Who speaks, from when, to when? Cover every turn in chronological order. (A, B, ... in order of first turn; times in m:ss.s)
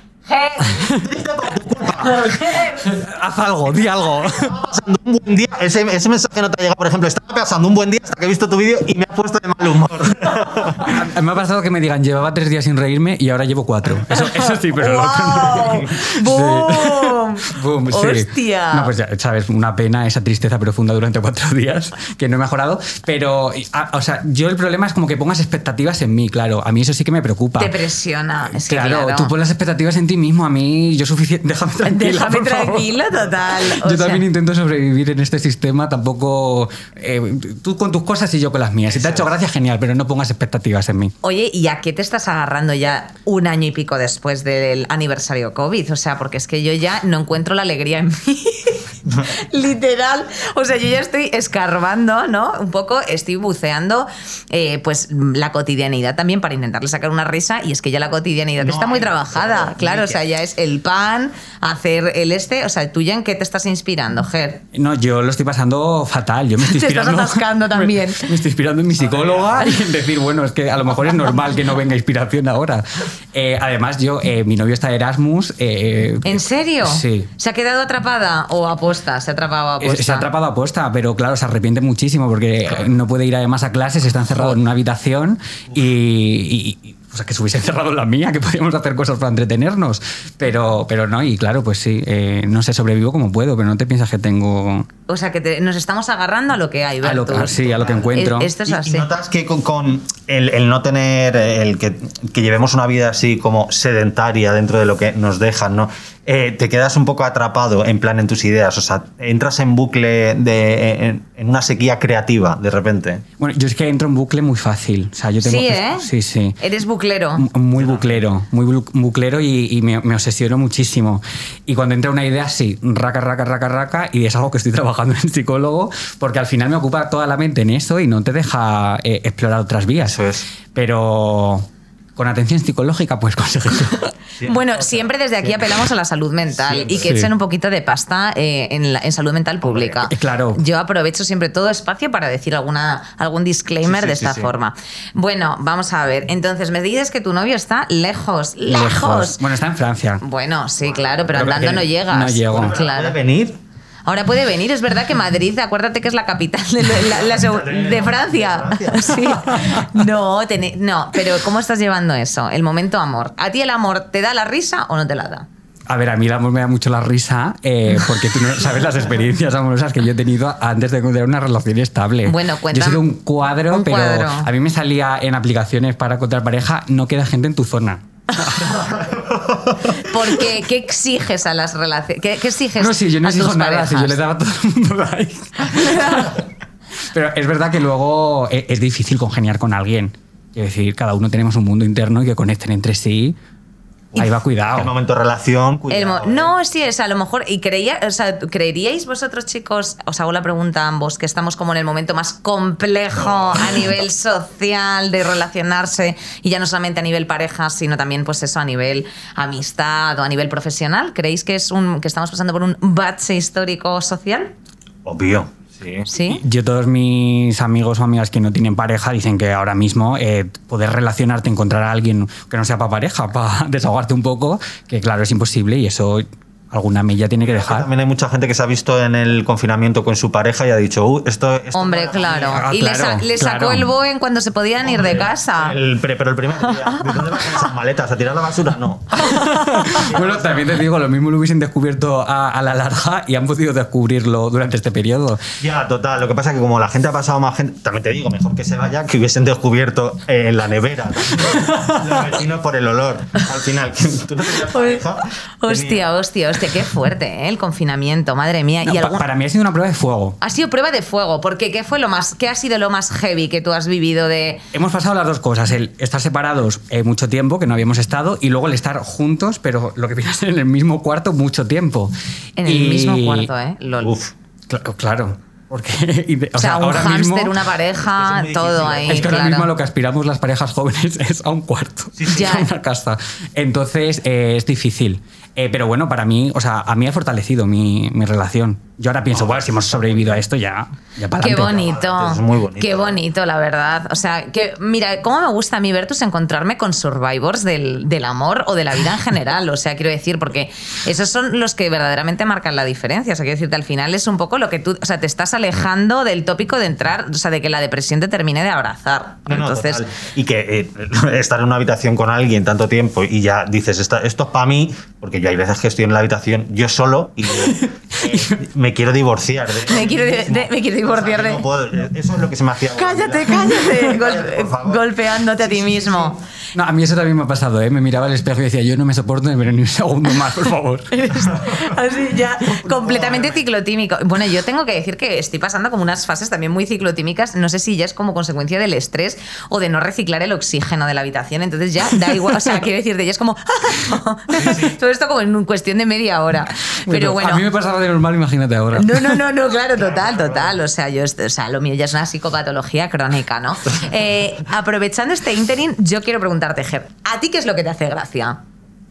0:00.3-0:00.8 A
0:00.8-0:02.4 B
0:02.0-0:02.9 A
0:02.8-0:04.6 C
0:04.3-0:11.0 B
0:10.8-0:27.8 C
0:14.1-0:18.9 A
0:27.6-0:29.3 A
0:28.5-0:41.1 C
0:31.8-0:34.2 A
0:38.9-0:39.3 B
0:41.2-1:04.6 A
0:58.6-1:00.2 B
1:04.7-1:17.3 C
1:06.6-1:08.3 A
1:09.0-1:09.8 B
1:16.2-1:20.3 A
1:19.8-1:34.9 C
1:35.1-1:37.6 A
1:37.0-1:38.5 C
1:37.5-1:53.2 B
1:38.1-1:39.1 A
1:53.4-1:56.6 C
1:55.4-1:56.1 A
1:56.6-1:57.4 A
1:57.4-2:10.2 C
1:57.8-1:58.2 B
2:10.0-2:10.4 B
2:10.8-2:14.1 C
2:14.4-2:15.8 B
2:14.4-2:29.4 A
2:16.5-2:17.1 B
2:16.9-2:17.3 C
2:19.6-2:20.0 B
2:20.1-2:20.6 C
2:23.8-2:24.5 B
2:28.6-2:30.2 C
2:30.2-2:33.2 A
2:31.3-2:32.8 C
2:32.5-2:33.6 B
2:34.0-2:45.5 A
2:37.0-2:39.6 B
2:45.9-2:58.9 C
2:52.2-2:53.0 A
2:53.7-2:54.5 A
2:58.8-3:00.0 B
2:59.9-3:04.2 A
3:02.8-3:06.4 C
3:05.6-3:06.3 A
3:07.1-3:13.4 C
3:14.2-3:14.9 C
3:14.7-3:16.5 B
3:15.9-3:34.5 A
3:23.3-3:23.7 B
3:35.0-3:36.1 B
3:36.0-3:36.4 A
3:36.2-3:47.9 C
3:47.4-3:52.6 B
3:51.7-3:55.8 A
3:52.5-3:53.9 C
3:54.8-4:00.8 B
3:59.2-4:05.4 C
3:59.4-3:59.9 A
4:05.6-4:16.0 B
4:14.6-4:15.0 A
4:15.6-4:19.2 A
4:18.8-4:20.4 C
4:20.4-4:24.6 A
4:24.7-4:32.1 C
4:32.6-4:34.2 A
4:32.6-4:33.5 C
4:34.0-4:34.3 B
4:34.7-4:37.6 C
4:36.6-4:39.7 A
4:38.1-4:39.5 B
4:39.1-4:51.8 C
4:42.2-4:42.5 B
4:42.2-4:42.7 A
4:49.3-4:50.4 B
4:51.4-5:10.0 A
4:51.6-4:53.2 B
5:09.5-5:26.4 B
5:17.6-5:18.6 C
5:19.8-5:21.6 A
5:22.9-5:26.4 A
5:26.7-5:31.2 C
5:31.1-5:47.6 A
5:32.7-5:33.6 B
5:44.5-5:45.0 B
5:47.1-5:49.4 C
5:48.9-5:58.6 A
5:49.9-5:50.8 B